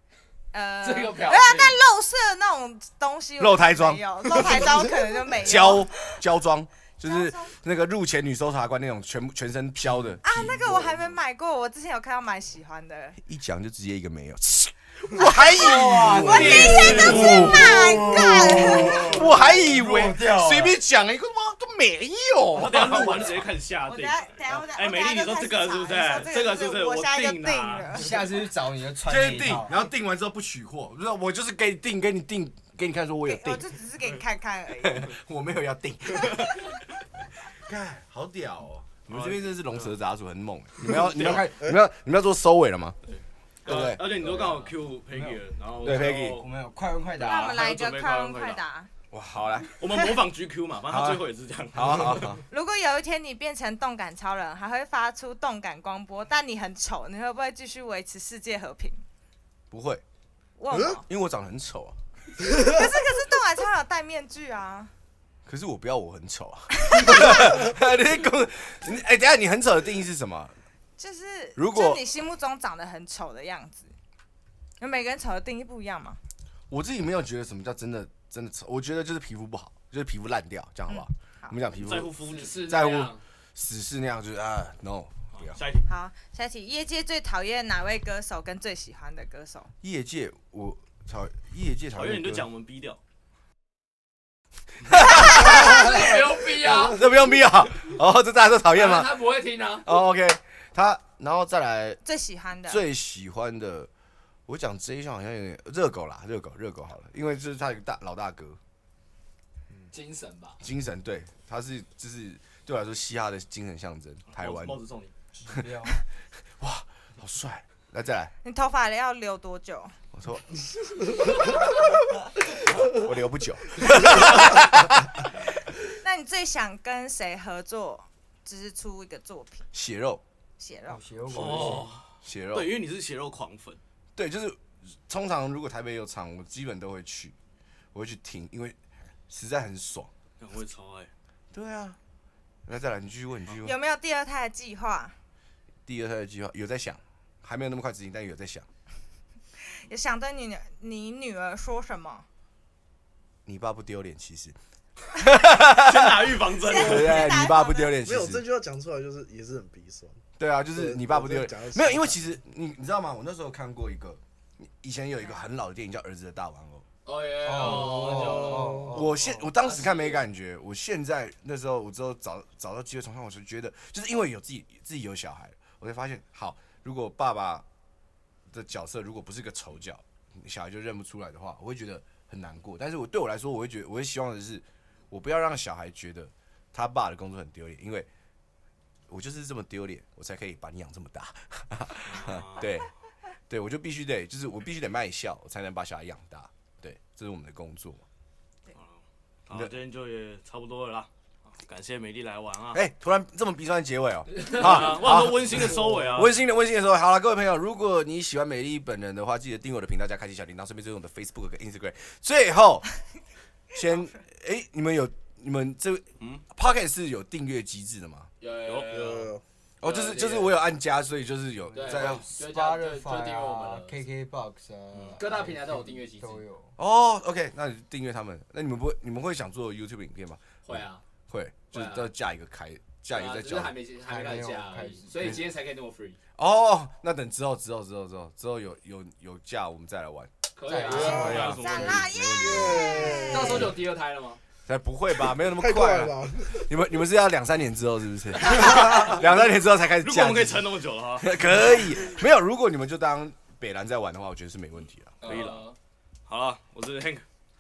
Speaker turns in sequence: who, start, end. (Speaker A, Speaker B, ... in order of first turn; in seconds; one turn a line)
Speaker A: 0.5-6.2
Speaker B: 0.8-1.8
Speaker C: 3.4-4.7
Speaker C: 5.3-10.9
Speaker A: 7.0-7.6
Speaker A: 10.2-13.2
Speaker C: 13.2-23.5
Speaker D: 15.4-20.8
Speaker A: 16.2-19.2
Speaker E: 16.6-17.3
Speaker F: 22.6-28.1
Speaker A: 23.8-28.2
Speaker D: 27.9-29.8
Speaker C: 29.1-33.7
Speaker A: 33.2-35.1
Speaker C: 34.8-36.8
Speaker C: 37.4-43.0
Speaker F: 39.1-39.9
Speaker F: 41.1-41.5
Speaker F: 43.1-46.5
Speaker C: 43.6-44.0
Speaker D: 44.0-47.7
Speaker C: 45.8-46.4
Speaker A: 47.2-48.9
Speaker F: 47.2-48.6
Speaker C: 49.1-49.8
Speaker F: 49.8-52.4
Speaker C: 50.9-52.4
Speaker A: 52.5-59.0
Speaker C: 59.7-60.0
Speaker A: 60.6-61.0
Speaker C: 60.9-62.0
Speaker A: 62.4-64.9
Speaker C: 65.4-70.5
Speaker A: 66.8-67.7
Speaker A: 71.0-73.9
Speaker C: 71.5-72.0
Speaker A: 74.8-76.2
Speaker C: 76.7-85.6
Speaker A: 80.9-81.6
Speaker F: 81.7-82.5
Speaker B: 82.1-83.2
Speaker F: 85.3-85.9
Speaker A: 85.9-89.7
Speaker C: 89.8-92.5
Speaker F: 91.9-93.0
Speaker C: 94.9-99.2
Speaker A: 95.1-95.7
Speaker B: 95.5-97.0
Speaker B: 98.7-99.9
Speaker C: 99.8-102.0
Speaker A: 102.0-102.8
Speaker C: 102.7-103.9
Speaker C: 104.5-108.6
Speaker B: 109.9-110.6
Speaker C: 110.6-114.8
Speaker F: 114.3-115.1
Speaker D: 115.4-116.0
Speaker C: 116.6-118.3
Speaker A: 118.4-120.0
Speaker C: 120.1-120.5
Speaker C: 122.8-125.3
Speaker A: 125.7-129.7
Speaker C: 129.7-130.2
Speaker A: 130.6-131.0
Speaker D: 130.9-131.9
Speaker F: 131.3-133.8
Speaker C: 132.2-132.7
Speaker C: 134.2-137.3
Speaker C: 137.9-138.8
Speaker C: 139.3-140.1
Speaker F: 140.4-141.1
Speaker C: 141.5-142.0
Speaker C: 142.7-143.7
Speaker A: 143.6-145.2
Speaker C: 145.8-148.7
Speaker A: 149.6-152.2
Speaker C: 153.4-154.6
Speaker C: 155.1-158.4
Speaker F: 155.5-157.2
Speaker A: 156.6-158.0
Speaker E: 158.0-162.2
Speaker C: 160.4-166.8
Speaker B: 167.1-170.2
Speaker D: 167.4-169.2
Speaker E: 168.4-169.0
Speaker C: 168.9-177.6
Speaker C: 178.5-188.1
Speaker C: 189.1-192.9
Speaker F: 192.1-192.8
Speaker C: 193.5-198.0
Speaker F: 198.7-202.8
Speaker C: 202.7-212.8
Speaker F: 204.4-206.3
Speaker C: 213.7-218.3
Speaker B: 218.4-220.6
Speaker F: 218.7-219.3
Speaker E: 218.9-219.4
Speaker C: 219.8-222.2
Speaker D: 221.7-226.7
Speaker B: 221.7-224.0
Speaker B: 225.2-226.4
Speaker C: 226.8-233.8
Speaker B: 230.6-231.0
Speaker B: 231.7-232.1
Speaker B: 233.1-236.2
Speaker D: 234.1-235.2
Speaker C: 236.3-240.3
Speaker B: 240.5-241.4
Speaker D: 240.6-241.7
Speaker F: 240.9-242.1
Speaker C: 240.9-243.7
Speaker E: 241.2-241.5
Speaker A: 241.5-243.7
Speaker E: 242.3-243.7
Speaker B: 243.2-244.4
Speaker C: 244.7-255.4
Speaker E: 245.4-246.7
Speaker F: 248.5-249.3
Speaker F: 250.0-251.5
Speaker B: 255.2-255.8
Speaker F: 255.2-255.7
Speaker F: 256.3-257.2